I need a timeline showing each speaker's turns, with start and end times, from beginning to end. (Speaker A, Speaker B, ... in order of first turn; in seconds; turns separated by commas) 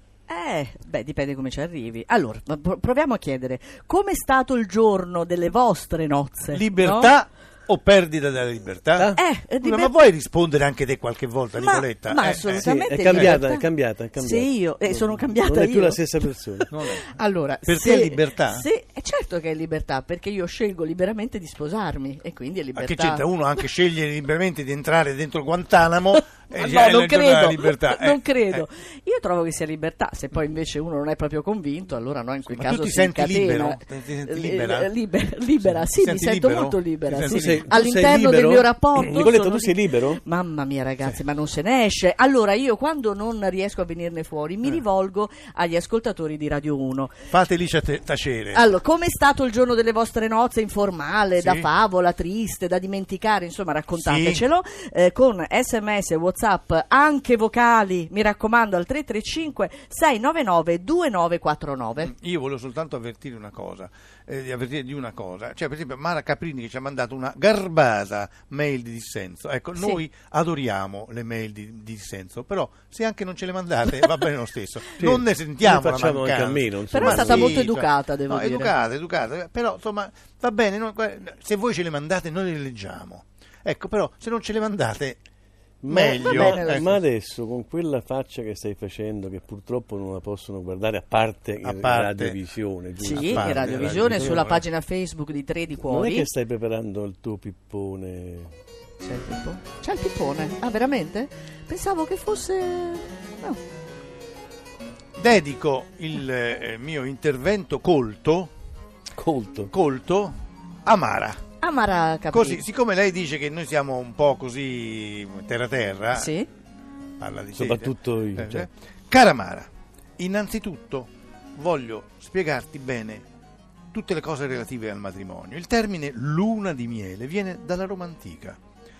Speaker A: 0.3-7.1, Speaker B: 6.5-13.4, Speaker A: 9.2-10.0, Speaker A: 11.6-13.7, Speaker C: 12.3-16.7, Speaker A: 14.2-16.0, Speaker B: 16.7-17.1, Speaker A: 16.9-23.6, Speaker B: 17.7-18.6, Speaker B: 22.8-28.7, Speaker A: 26.1-47.2, Speaker B: 32.5-34.9, Speaker B: 35.6-37.6, Speaker C: 37.3-40.2, Speaker B: 47.3-48.6, Speaker A: 48.5-62.1, Speaker B: 51.4-51.7, Speaker B: 54.0-54.4, Speaker B: 62.0-85.2, Speaker A: 69.8-70.0, Speaker C: 75.0-77.6, Speaker A: 76.9-78.7, Speaker C: 85.8-94.4, Speaker B: 85.9-87.0, Speaker A: 85.9-86.9, Speaker B: 91.6-92.4, Speaker A: 93.0-96.3, Speaker B: 93.1-94.6, Speaker C: 95.8-98.5, Speaker A: 99.0-103.6, Speaker B: 105.2-108.5, Speaker C: 109.2-109.7, Speaker B: 109.7-111.4, Speaker A: 111.6-112.6, Speaker B: 112.3-116.3, Speaker A: 116.1-116.5, Speaker B: 117.2-123.2, Speaker C: 117.5-118.7, Speaker B: 123.9-128.6